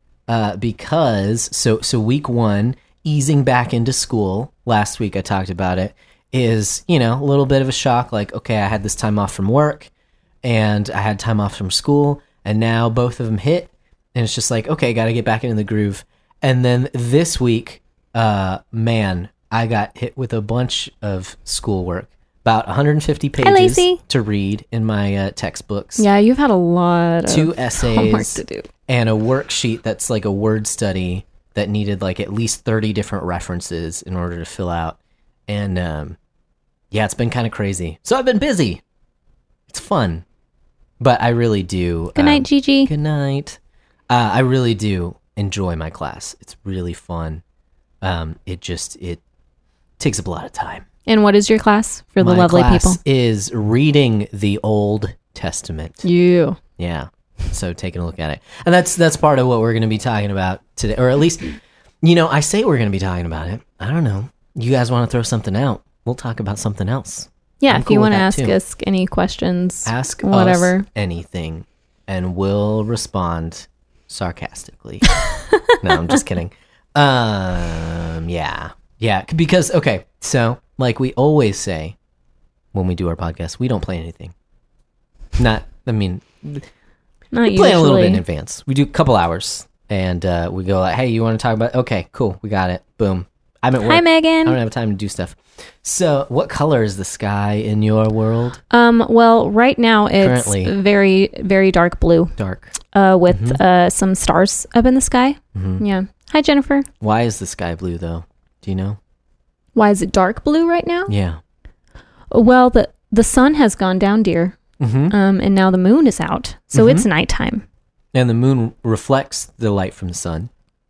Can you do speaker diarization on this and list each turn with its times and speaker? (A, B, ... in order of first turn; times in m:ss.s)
0:00.3-0:09.9 A
0:10.4-0:26.1 A
0:23.4-0:24.0 B
0:26.0-0:28.7 B
0:27.3-0:36.2 A
0:36.9-0:38.8 A
0:39.7-0:40.2 A
0:41.0-0:47.4 A
0:42.2-0:42.9 B
0:48.0-0:49.2 A
0:50.0-0:50.8 A
0:51.1-0:53.0 B
0:52.2-0:56.0 A
0:56.0-0:56.6 B
0:56.8-1:08.6 A
1:07.6-1:10.9 B
1:09.8-1:15.1 A
1:15.2-1:15.8 B
1:15.8-1:22.0 A
1:22.7-1:24.3 A
1:25.4-1:26.7 A
1:27.3-1:28.2 B
1:27.4-1:38.6 A
1:33.8-1:34.6 B
1:38.7-1:42.3 B
1:40.2-1:40.7 A
1:42.4-1:42.7 A
1:42.9-1:46.9 B
1:43.3-1:43.6 A
1:45.6-1:45.8 A
1:47.0-1:49.0 A
1:49.8-1:51.1 B
1:51.1-1:51.4 A
1:52.3-1:54.6 B
1:54.8-1:55.1 A
1:55.1-1:57.6 B
1:56.7-1:57.1 A
1:58.1-2:00.5 A